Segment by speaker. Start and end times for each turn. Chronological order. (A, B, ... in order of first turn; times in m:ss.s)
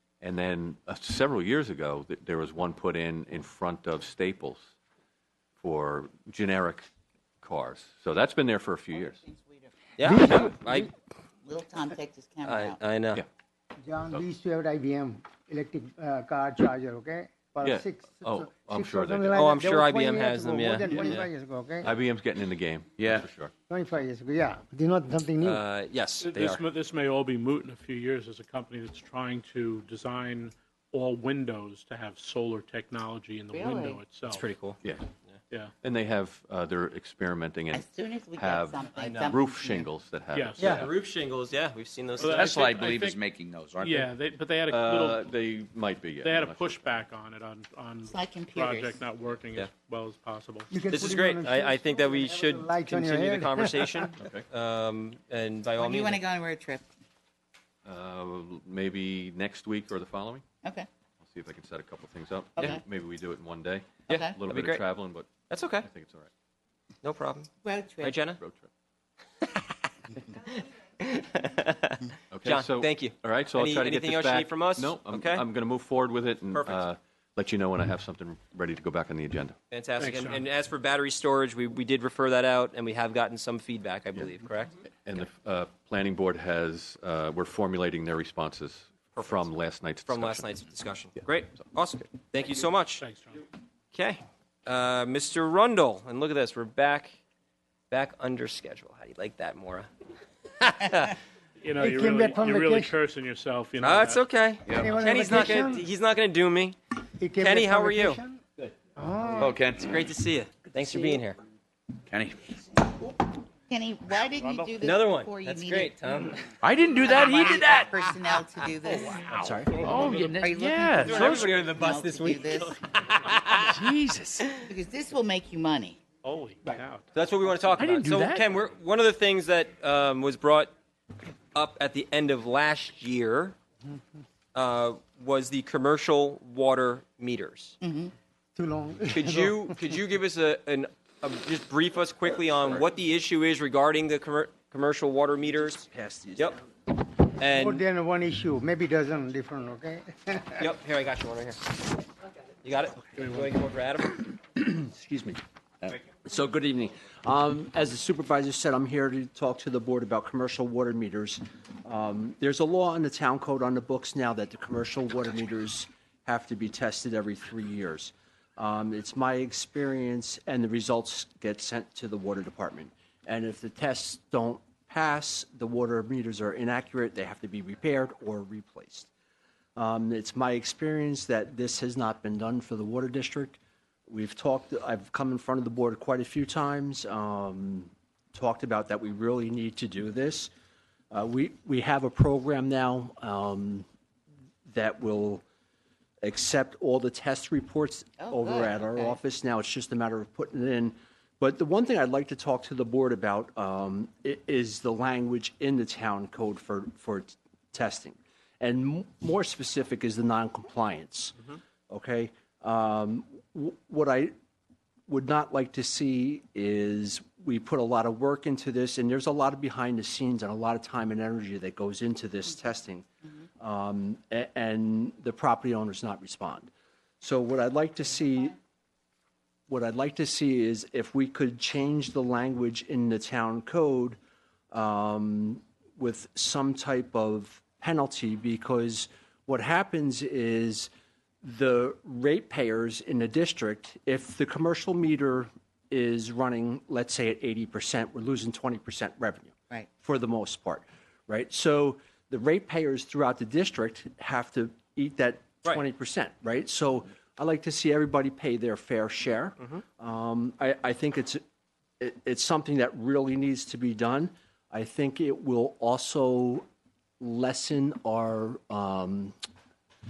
0:00.2-0:04.7 A
0:05.6-0:06.9 A
0:07.4-0:09.2 A
0:09.0-0:10.5 B
0:10.0-0:10.9 C
0:10.1-0:10.5 D
0:11.4-0:12.8 B
0:12.4-0:13.2 C
0:13.8-0:21.9 D
0:17.6-0:19.4 A
0:19.3-0:21.3 C
0:21.8-0:23.5 A
0:23.0-0:23.2 E
0:23.7-0:25.6 D
0:25.4-0:26.6 C
0:26.2-0:34.5 F
0:33.5-0:34.0 B
0:34.3-0:34.8 C
0:35.8-0:40.9 A
0:37.7-0:39.9 B
0:39.0-0:39.3 C
0:40.3-0:40.9 F
0:40.6-0:42.7 C
0:42.2-0:43.2 F
0:42.2-0:44.1 E
0:43.8-0:45.2 F
0:44.7-0:46.9 A
0:46.2-0:50.7 F
0:48.0-0:49.0 B
0:50.7-0:54.1 D
0:50.9-0:56.2 C
0:54.2-0:54.5 A
0:55.8-0:56.8 B
0:57.9-1:00.4 A
1:01.2-1:06.3 A
1:02.6-1:02.8 B
1:04.1-1:04.4 B
1:04.1-1:04.8 C
1:05.5-1:05.9 C
1:07.0-1:07.5 C
1:07.6-1:08.3 B
1:08.0-1:08.4 C
1:08.4-1:08.7 A
1:10.5-1:15.4 C
1:12.3-1:19.6 A
1:16.5-1:16.9 C
1:19.7-1:24.8 C
1:20.0-1:20.4 F
1:25.0-1:30.6 A
1:29.1-1:29.5 C
1:30.1-1:33.1 C
1:33.0-1:33.4 F
1:33.9-1:37.2 C
1:37.9-1:39.9 C
1:40.6-1:41.2 C
1:41.6-1:44.2 F
1:41.8-1:43.0 D
1:43.8-1:46.8 C
1:44.6-1:45.0 E
1:44.7-1:45.9 D
1:47.2-1:48.4 D
1:47.4-1:48.2 C
1:49.0-1:49.6 D
1:49.4-1:50.1 E
1:49.8-1:51.4 C
1:52.1-1:52.5 E
1:53.7-1:56.0 B
1:54.8-1:56.5 C
1:56.6-1:58.2 E
1:56.9-1:59.3 B
1:58.9-2:01.7 E
1:59.2-2:00.4 F
1:59.3-1:59.8 G
1:59.8-2:02.8 B
2:01.0-2:03.8 C
2:03.5-2:04.5 E
2:04.6-2:06.0 B
2:06.2-2:07.1 F
2:07.1-2:10.7 C
2:07.6-2:08.2 F
2:07.8-2:08.5 E
2:11.5-2:13.6 C
2:14.6-2:17.8 C
2:17.8-2:18.1 B
2:18.6-2:19.7 D
2:19.1-2:25.9 C
2:25.8-2:26.6 G
2:27.4-2:27.8 C
2:27.5-2:30.6 D
2:30.6-2:31.8 C
2:32.6-2:34.2 C
2:34.3-2:35.4 G
2:35.9-2:59.1 G
2:59.8-3:03.6 G
3:04.1-3:10.5 G
3:11.1-3:13.9 G
3:14.7-3:15.4 G
3:16.2-3:34.3 G
3:18.2-3:19.2 B
3:35.1-3:43.1 G
3:43.6-3:46.7 G
3:47.2-3:48.6 G
3:49.7-3:54.2 G
3:54.7-4:00.9 G
4:01.4-4:21.4 G
4:22.0-4:26.6 G
4:27.2-4:29.4 G